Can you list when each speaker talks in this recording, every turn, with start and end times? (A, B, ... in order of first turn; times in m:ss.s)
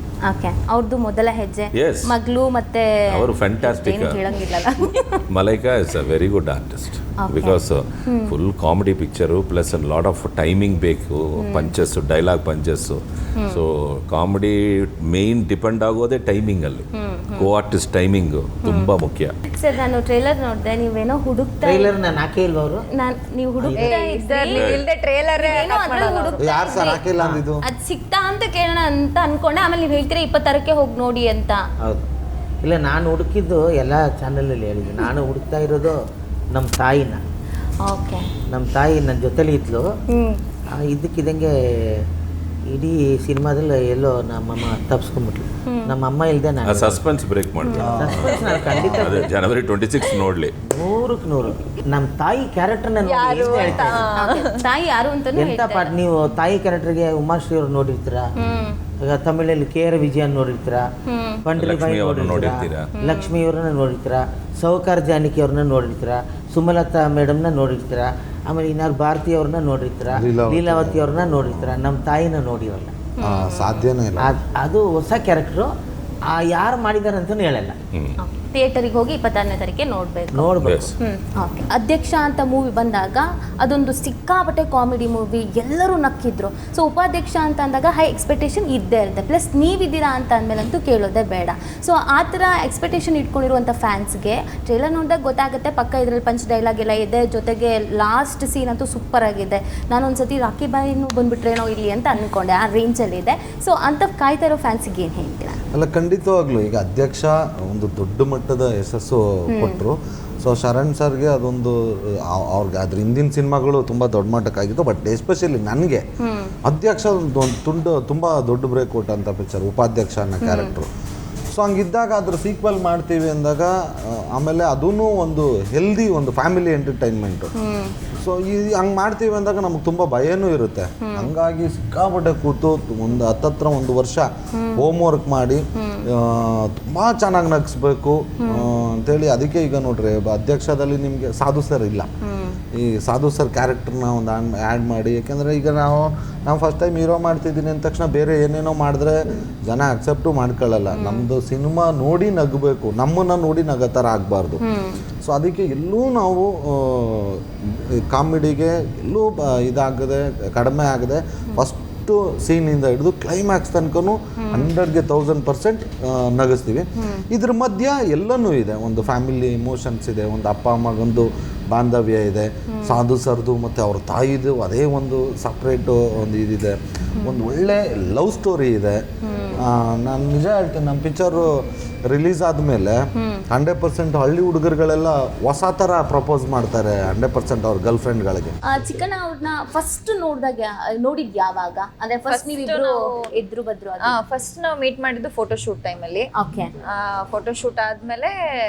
0:00.3-0:05.2 A
0:01.7-0:02.1 B
0:03.1-0:04.2 B
0:05.3-0:16.8 B
0:07.2-0:08.4 A
0:11.4-0:11.7 A
0:16.9-0:17.5 A
0:17.4-0:19.3 B
0:18.6-0:18.9 A
0:19.6-0:21.9 A
0:21.6-0:22.8 C
0:23.0-0:24.7 A
0:23.6-0:23.9 C
0:23.8-0:26.5 D
0:24.5-0:24.8 B
0:25.3-0:27.0 A
0:26.4-0:27.6 E
0:27.2-0:27.4 C
0:27.6-0:31.6 A
0:32.6-0:36.0 C
0:36.5-0:37.2 C
0:37.8-0:38.3 A
0:38.5-0:39.8 C
0:40.1-0:40.4 A
0:40.8-0:42.0 C
0:42.7-0:47.0 C
0:45.7-0:45.9 A
0:46.6-0:50.5 B
0:47.6-0:48.0 A
0:47.8-0:49.0 E
0:47.8-0:49.3 C
0:48.3-0:48.6 D
0:50.7-0:54.1 C
0:53.0-0:54.5 D
0:54.1-0:55.9 A
0:55.4-0:58.3 C
0:58.4-0:58.8 A
0:59.0-1:00.8 C
1:01.1-1:01.4 A
1:01.4-1:13.0 C
1:01.5-1:02.9 B
1:02.9-1:03.3 A
1:10.1-1:11.7 E
1:13.2-1:13.9 A
1:13.2-1:14.4 E
1:14.2-1:15.7 C
1:16.3-1:17.8 C
1:18.2-1:45.6 A
1:20.3-1:20.9 C
1:20.6-1:20.9 B
1:45.7-1:56.0 E
1:49.5-1:49.8 A
1:56.2-1:56.5 A
1:56.6-2:00.9 E
2:00.4-2:00.8 A
2:01.5-2:07.5 E
2:07.6-2:07.9 A
2:08.2-2:22.1 E
2:11.0-2:11.3 A
2:14.5-2:14.9 A
2:15.8-2:16.1 A
2:18.4-2:18.7 A
2:22.2-2:22.6 A
2:22.7-2:34.6 E
2:30.9-2:31.3 A
2:34.6-2:35.0 A
2:35.2-2:59.0 E
2:44.4-2:44.7 A
2:47.0-2:47.2 A
2:52.7-2:53.0 A
2:59.2-2:59.6 A
2:59.6-3:01.5 E
3:02.1-3:03.0 E
3:03.1-3:03.4 A
3:03.5-3:08.6 E
3:08.7-3:14.1 A
3:12.3-3:13.3 D
3:14.0-3:16.3 D
3:16.4-3:16.7 A
3:16.8-3:18.3 D